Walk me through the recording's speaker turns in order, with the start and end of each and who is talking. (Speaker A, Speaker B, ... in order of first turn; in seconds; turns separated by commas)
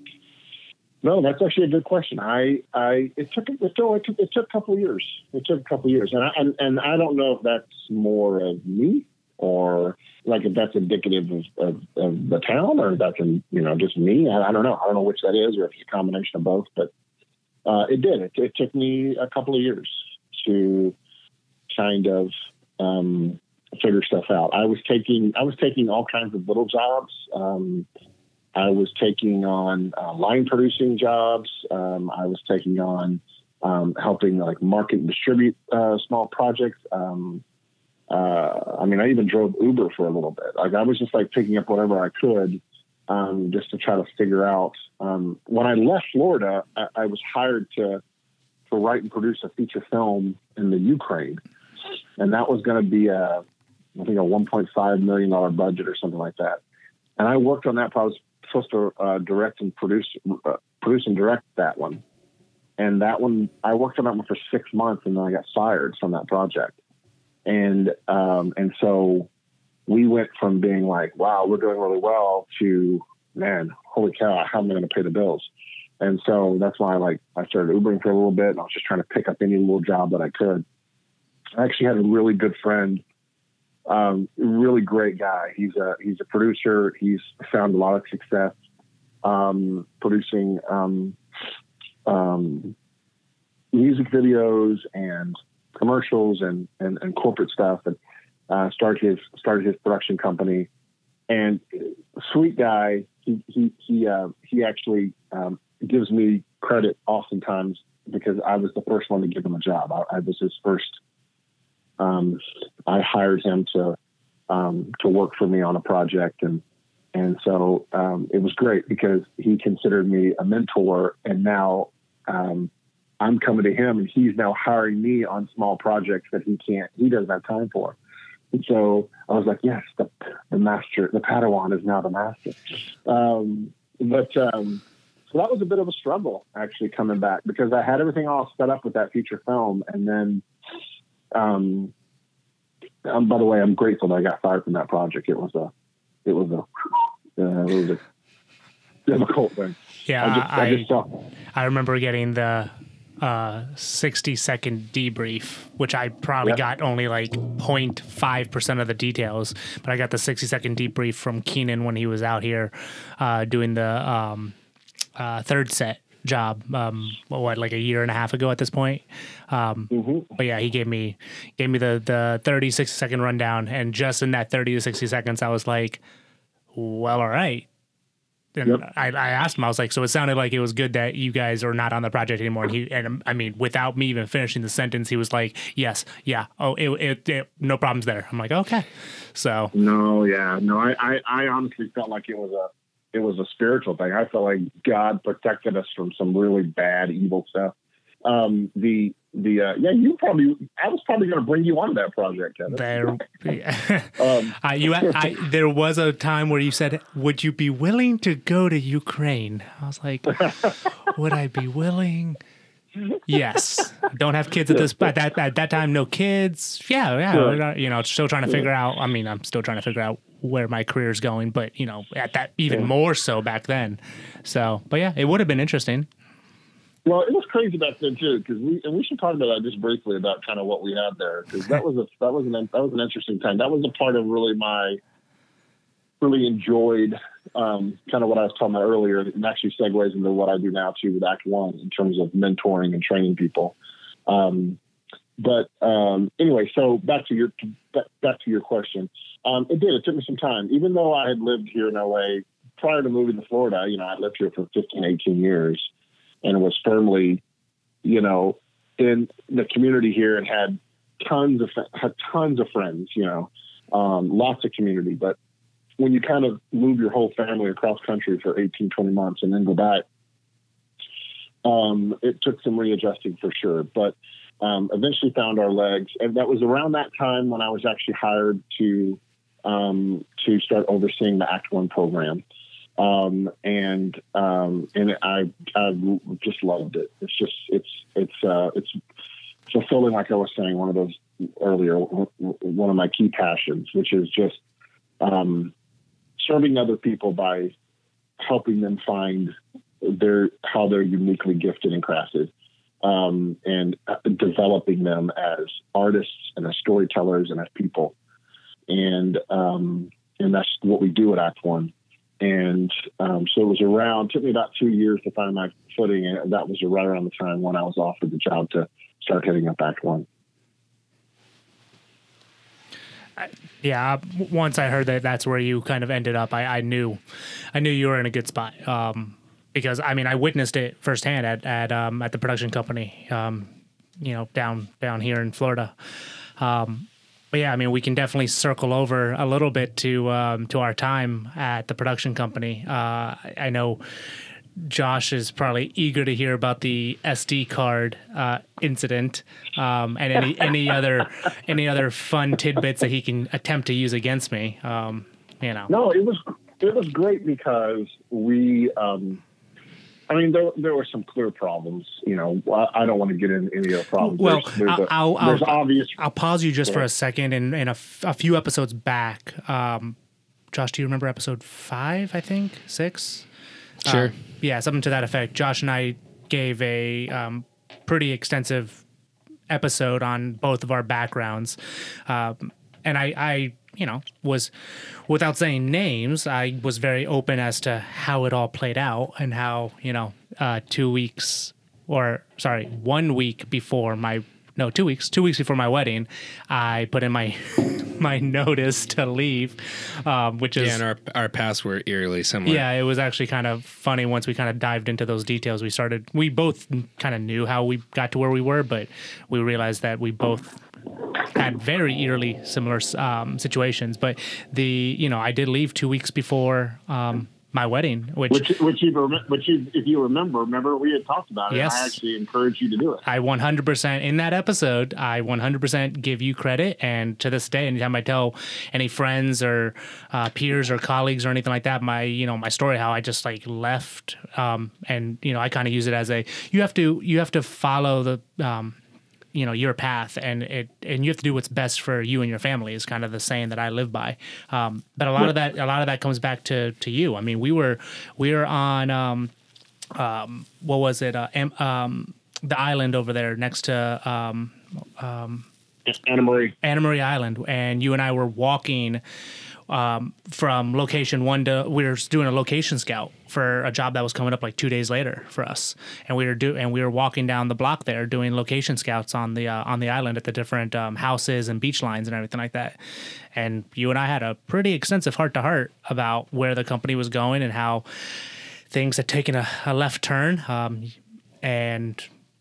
Speaker A: 1.0-16.9, Speaker A: 17.6-21.0, Speaker A: 21.7-27.9, Speaker A: 28.6-37.4, Speaker A: 38.1-48.0, Speaker A: 48.7-51.4, Speaker A: 52.2-53.4, Speaker A: 54.0-56.6, Speaker A: 57.2-62.0, Speaker A: 62.8-66.8, Speaker A: 67.5-69.3, Speaker A: 69.9-75.5, Speaker A: 76.0-80.6, Speaker A: 81.6-83.0, Speaker A: 83.9-88.6, Speaker A: 89.2-91.2, Speaker A: 92.1-92.8, Speaker A: 93.7-98.0, Speaker A: 98.5-100.7, Speaker A: 101.3-111.0, Speaker A: 112.0-114.0, Speaker A: 114.5-116.6, Speaker A: 117.1-122.7, Speaker A: 123.2-128.0, Speaker A: 128.5-140.4, Speaker A: 141.3-141.9, Speaker A: 143.0-145.7, Speaker A: 146.2-148.0, Speaker A: 149.1-151.1, Speaker B: 150.1-150.9, Speaker B: 151.5-164.5, Speaker B: 165.2-176.0, Speaker A: 169.9-170.3, Speaker B: 176.7-177.7, Speaker B: 178.6-189.7, Speaker A: 189.7-197.7, Speaker A: 198.2-203.2, Speaker B: 202.7-212.4, Speaker A: 204.2-205.2, Speaker B: 213.2-226.1, Speaker A: 217.3-217.6, Speaker A: 227.1-235.0, Speaker A: 236.2-243.8, Speaker A: 244.3-244.8, Speaker A: 245.4-255.9, Speaker A: 256.4-257.4, Speaker A: 258.0-265.4, Speaker A: 266.0-270.1, Speaker A: 271.6-282.4, Speaker A: 283.0-289.0, Speaker A: 289.7-294.6, Speaker A: 295.2-295.7, Speaker A: 296.4-297.7, Speaker A: 298.4-302.5, Speaker A: 303.0-308.1, Speaker A: 308.9-320.3, Speaker B: 323.4-327.2, Speaker B: 327.7-335.9, Speaker B: 336.6-344.0, Speaker B: 344.8-355.9, Speaker A: 355.9-359.4, Speaker A: 360.3-366.2, Speaker B: 364.2-370.2, Speaker B: 370.7-373.5, Speaker C: 374.1-374.3, Speaker B: 374.1-379.0, Speaker B: 379.7-384.7, Speaker B: 385.3-401.0, Speaker C: 400.8-402.8, Speaker B: 402.7-410.8, Speaker B: 411.4-418.7, Speaker A: 418.5-423.2, Speaker B: 421.7-422.2, Speaker B: 423.2-439.0, Speaker B: 439.5-449.5, Speaker B: 450.1-455.7, Speaker A: 456.1-456.8, Speaker B: 456.8-459.2, Speaker B: 459.9-473.0, Speaker B: 473.6-478.0, Speaker B: 478.9-482.3